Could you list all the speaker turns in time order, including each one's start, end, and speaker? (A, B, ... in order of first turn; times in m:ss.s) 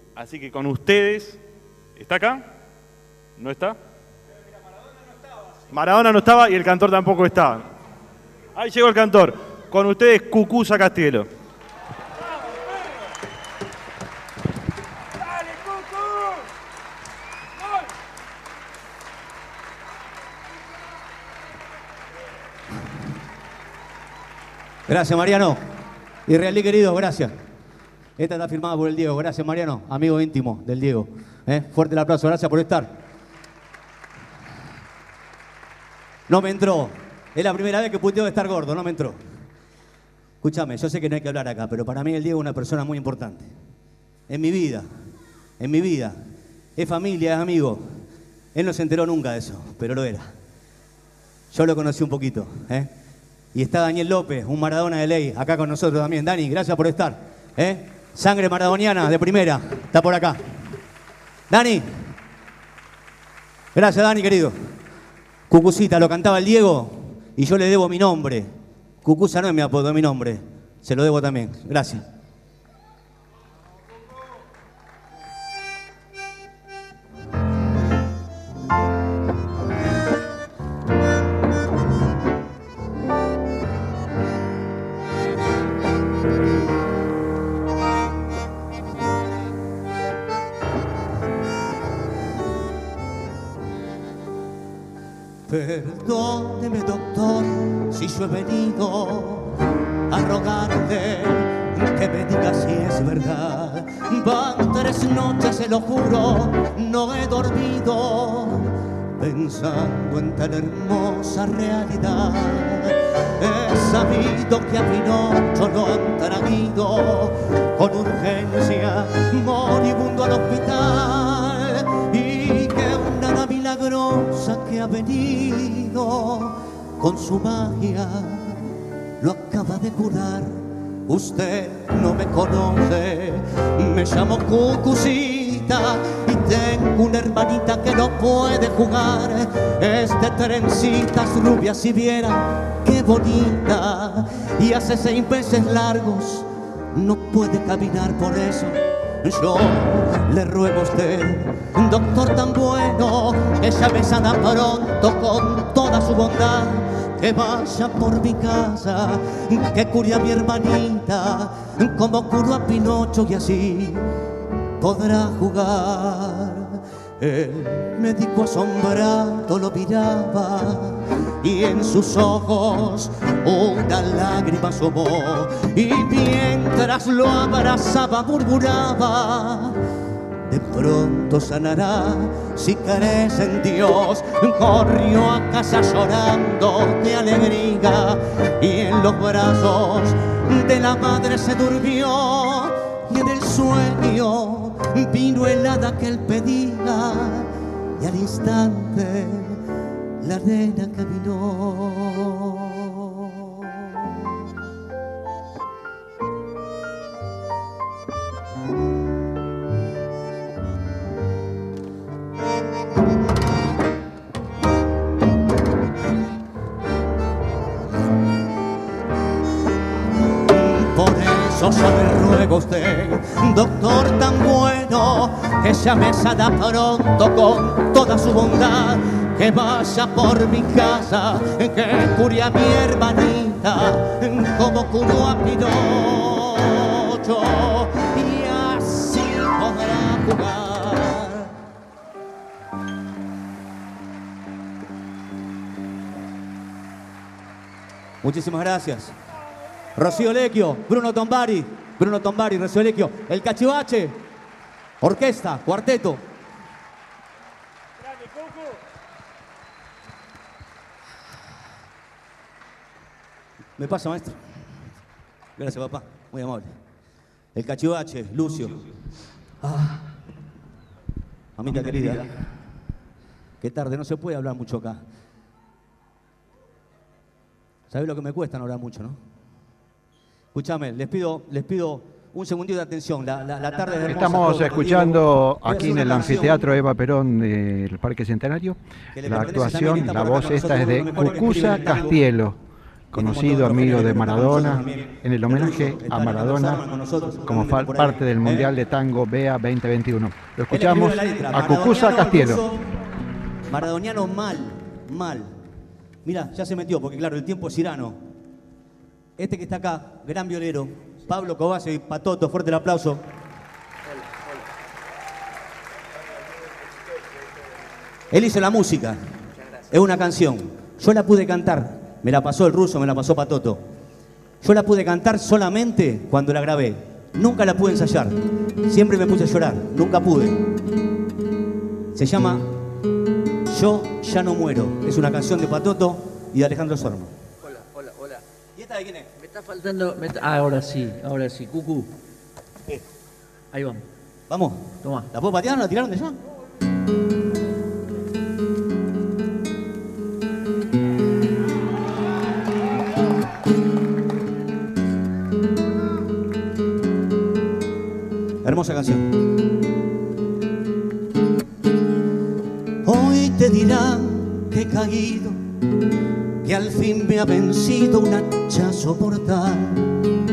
0:00.2-0:01.4 A
0:02.0-0:02.4 A
0:03.4-0:03.8 A
0:05.7-0:07.6 A
0:08.6-0:11.3 A
0:24.9-0:25.6 B
0:26.3-0:27.3 B
0:28.2-0:32.9 B
0:36.3-0:39.2 B
0:40.4-0:43.5 B
0:44.3-0:44.9 B
0:45.6-0:46.2 B
0:46.8-0:48.0 B
0:48.5-0:50.3 B
0:51.5-0:52.9 B
0:53.5-1:00.4 B
1:01.5-1:01.8 B
1:03.7-1:04.6 B
1:05.5-1:08.5 B
1:09.0-1:12.0 B
1:35.5-1:39.5 B
1:40.1-2:08.6 B
2:09.2-2:44.0 B
2:44.8-2:59.8 B
3:00.5-3:17.5 B
3:18.0-3:19.6 B
3:20.2-3:23.8 B
3:40.5-4:01.5 B
4:08.2-4:09.1 B
4:10.0-4:14.2 B
4:15.0-4:16.2 B
4:23.8-4:24.4 B
4:25.6-4:26.7 B
4:27.5-4:28.8 B
4:29.6-4:29.9 B
4:31.6-4:32.3 B
4:33.6-4:35.0 B
4:37.9-4:39.2 B
4:40.5-4:46.6 B
4:44.1-4:52.6 C
4:49.2-4:52.2 B
4:53.1-4:56.9 C
4:53.1-4:58.7 B
4:57.4-5:02.6 C
5:00.7-5:02.8 B
5:03.7-5:05.5 B
5:06.2-5:08.2 B
5:09.4-5:13.2 B
5:14.1-5:14.4 D
5:18.3-5:19.2 B
5:19.9-5:23.8 B
5:24.6-5:28.4 B
5:28.9-5:30.6 B
5:32.1-5:32.6 B
5:33.7-5:37.3 B
5:37.6-5:38.4 D
5:38.8-5:39.3 B
5:39.4-5:42.1 D
5:43.7-5:44.0 D
5:44.5-5:46.4 B
5:45.0-5:45.3 D
5:58.6-5:59.3 B
6:03.0-6:05.6 B
6:06.6-6:10.1 B